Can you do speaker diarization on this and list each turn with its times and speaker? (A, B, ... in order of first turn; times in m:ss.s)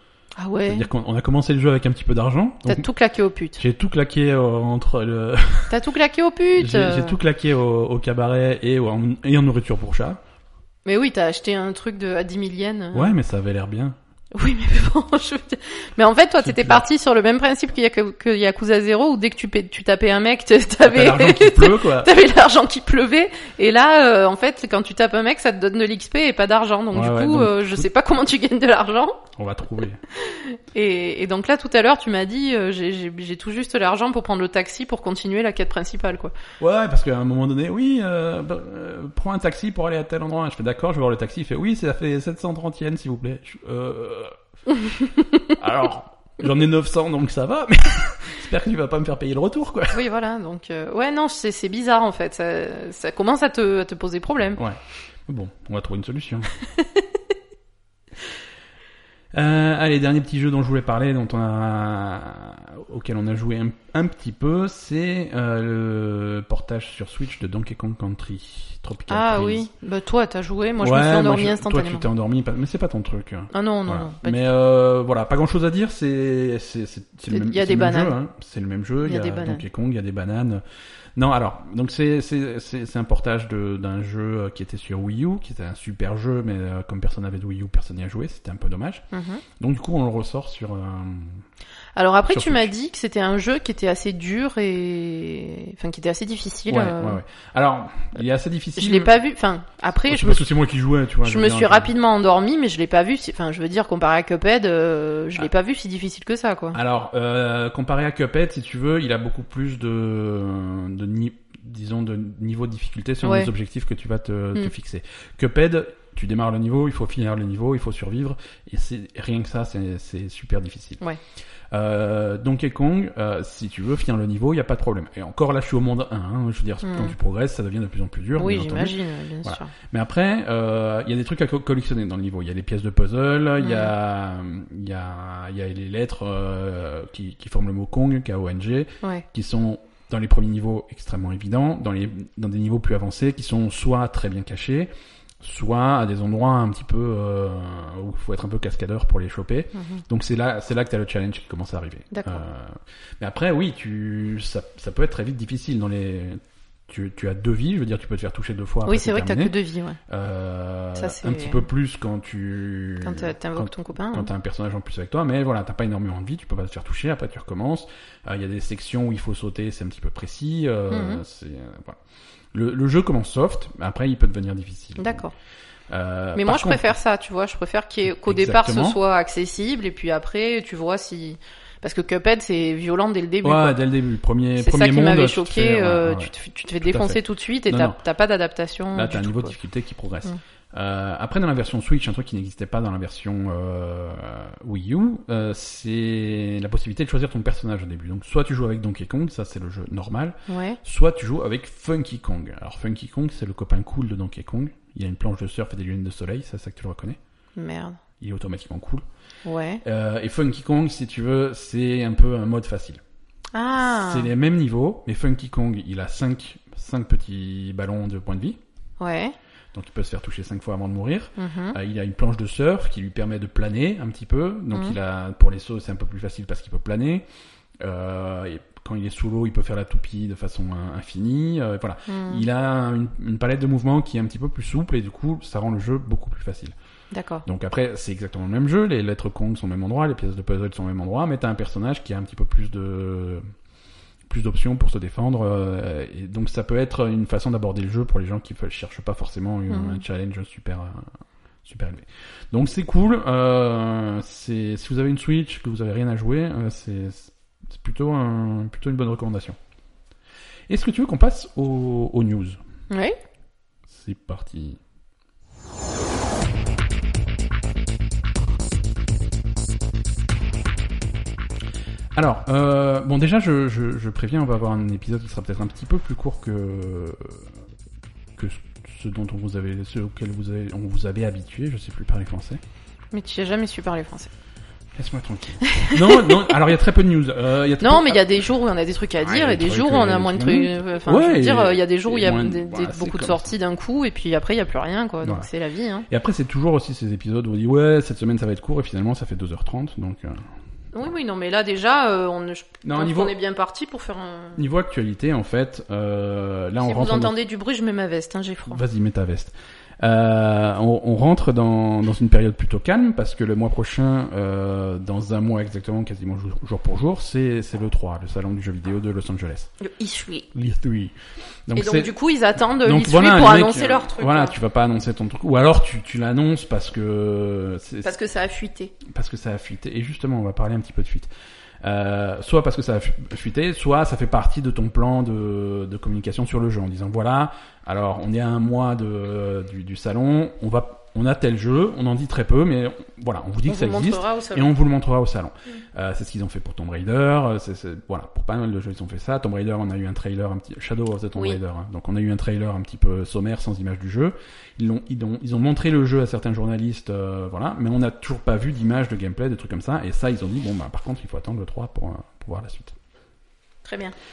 0:00.4-0:00.9 A
0:00.7-0:02.8 B
0:02.6-0:03.6 A
0:03.6-0:05.8 B
0:05.7-0:07.2 A
0:06.6-0:10.2 B
0:10.8-0:13.1 A
0:12.9-0:14.0 B
0:14.3-0:29.2 A
0:16.4-0:16.8 B
0:20.8-0:22.1 B
0:26.9-0:27.8 B
0:29.4-0:30.0 B
0:30.2-0:36.3 A
0:36.6-0:44.3 B
0:45.5-0:50.0 B
0:49.9-0:54.6 A
0:54.6-0:56.5 B
0:56.8-0:57.0 A
0:59.3-1:09.7 B
1:09.1-1:12.1 A
1:10.8-1:20.6 B
1:13.5-1:14.4 A
1:17.3-1:18.2 A
1:19.0-1:19.6 A
1:21.2-1:29.0 B
1:29.1-1:29.4 A
1:29.6-1:31.4 B
1:32.0-1:37.2 A
1:32.3-1:32.7 B
1:36.7-1:39.1 B
1:38.8-1:40.5 A
1:40.1-1:41.9 B
1:41.2-1:46.8 A
1:46.7-2:01.0 B
1:53.2-1:53.5 A
2:01.7-2:39.5 B
2:06.8-2:07.1 A
2:08.4-2:09.7 A
2:13.6-2:13.9 A
2:29.7-2:30.0 A
2:32.1-2:32.4 A
2:38.8-2:40.0 A
2:40.1-2:52.0 B
2:41.0-2:41.6 A
2:43.0-2:44.3 A
2:50.9-2:51.2 A
2:52.5-2:55.2 B
2:55.0-2:55.3 A
2:55.9-2:56.9 B
2:56.4-3:03.8 A
2:58.0-2:59.0 B
3:03.4-3:08.0 B
3:04.6-3:09.5 A
3:08.9-3:27.2 B
3:20.5-3:20.8 A
3:27.6-3:28.0 A
3:28.2-3:29.0 B
3:29.4-3:29.8 A
3:29.8-3:33.0 B
3:33.5-3:34.3 A
3:33.8-3:38.6 B
3:39.0-3:39.3 A
3:39.7-3:47.2 B
3:41.4-3:41.8 A
3:47.8-3:56.7 B
3:52.1-3:52.4 A
3:57.1-3:57.4 A
3:57.4-4:03.4 B
4:04.3-4:11.1 B
4:09.7-4:10.0 A
4:11.6-4:19.6 B
4:20.7-4:22.6 B
4:22.9-4:23.2 A
4:23.9-4:24.8 B
4:32.1-4:37.5 B
4:38.4-4:42.6 B
4:43.1-4:44.3 A
4:44.9-4:48.4 B
4:45.6-4:46.5 A
4:47.8-4:56.1 A
4:49.2-4:53.5 B
4:55.2-4:55.5 B
4:56.1-5:00.5 B
5:00.9-5:04.6 A
5:02.8-5:03.3 B
5:04.6-5:07.3 B
5:06.8-5:08.8 A
5:08.7-5:19.7 B
5:19.8-5:20.5 A
5:20.5-5:21.1 B
5:21.7-5:22.1 B
5:21.7-5:24.5 A
5:22.8-5:28.1 B
5:28.0-5:28.9 A
5:29.0-5:31.3 B
5:31.8-6:02.9 B
5:43.6-5:44.7 A
6:03.8-6:04.1 A